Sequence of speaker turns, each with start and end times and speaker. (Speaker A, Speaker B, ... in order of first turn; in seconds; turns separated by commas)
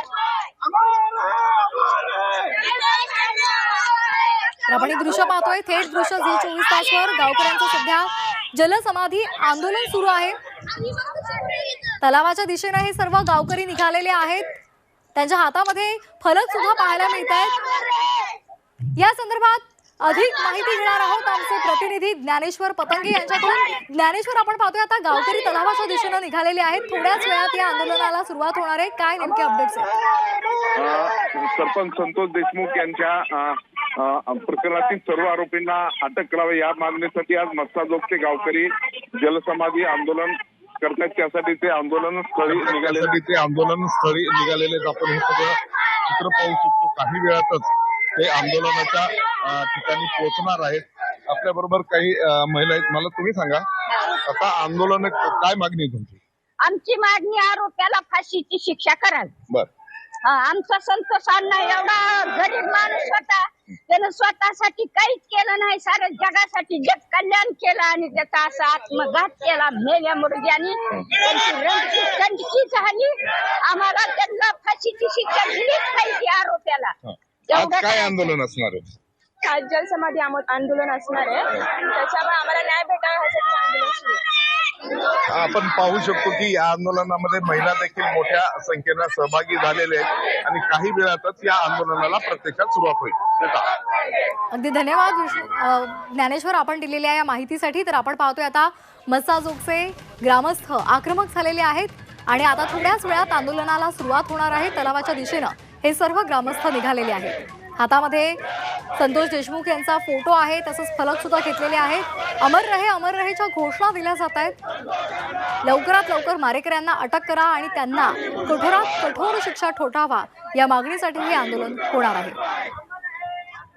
Speaker A: 4.7-10.4, Speaker A: 12.0-14.6, Speaker A: 15.2-17.6, Speaker A: 18.9-29.9, Speaker B: 30.8-43.2, Speaker C: 42.5-53.6, Speaker C: 54.2-56.2, Speaker D: 56.6-59.3, Speaker D: 60.2-77.0, Speaker D: 77.5-78.2, Speaker C: 77.5-78.9, Speaker E: 79.5-84.2, Speaker C: 85.3-93.6, Speaker A: 94.5-108.4, Speaker A: 109.0-114.5, Speaker A: 115.6-122.4